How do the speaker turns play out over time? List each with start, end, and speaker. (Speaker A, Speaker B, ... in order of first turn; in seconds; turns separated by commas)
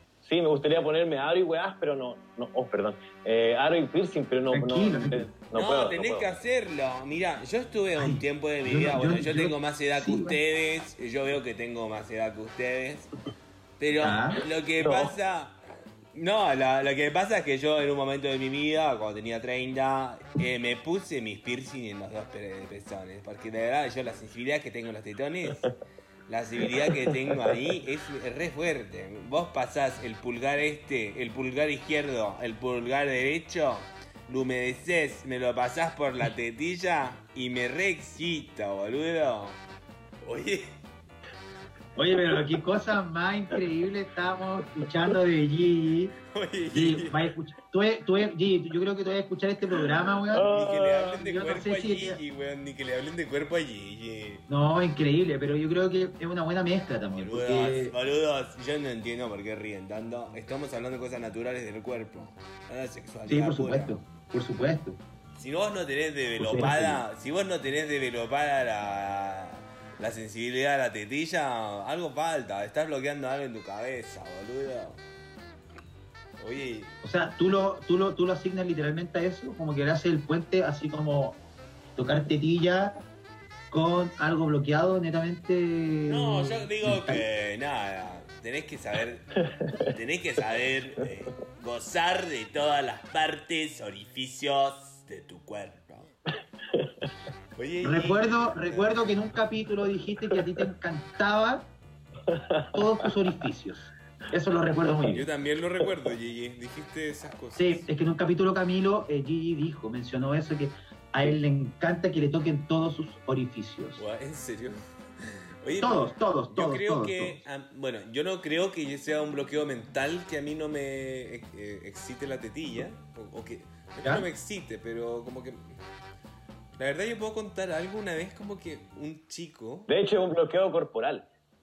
Speaker A: 0.2-6.3, Speaker B: 4.5-5.3, Speaker C: 5.5-13.1, Speaker B: 8.0-10.4, Speaker C: 13.8-15.6, Speaker B: 14.0-14.4, Speaker A: 14.8-15.1, Speaker C: 16.1-25.7, Speaker C: 26.3-39.6, Speaker C: 40.2-40.8, Speaker B: 42.0-46.2, Speaker C: 46.3-47.3, Speaker B: 46.7-50.5, Speaker A: 50.3-51.2, Speaker C: 50.5-54.5, Speaker B: 51.2-52.2, Speaker B: 54.5-57.9, Speaker C: 57.2-64.0, Speaker B: 63.3-65.0, Speaker C: 65.4-75.0, Speaker B: 66.4-67.0, Speaker C: 76.4-77.0, Speaker B: 77.0-81.4, Speaker B: 82.0-83.0, Speaker B: 83.7-87.2, Speaker C: 86.1-96.1, Speaker A: 89.5-89.9, Speaker A: 96.7-97.1, Speaker C: 97.5-99.1, Speaker B: 97.8-101.7, Speaker A: 102.3-103.1, Speaker B: 102.7-105.3, Speaker C: 105.1-107.9, Speaker B: 107.6-114.0, Speaker C: 114.0-125.8, Speaker B: 115.8-117.4, Speaker C: 126.8-129.9, Speaker A: 129.9-131.3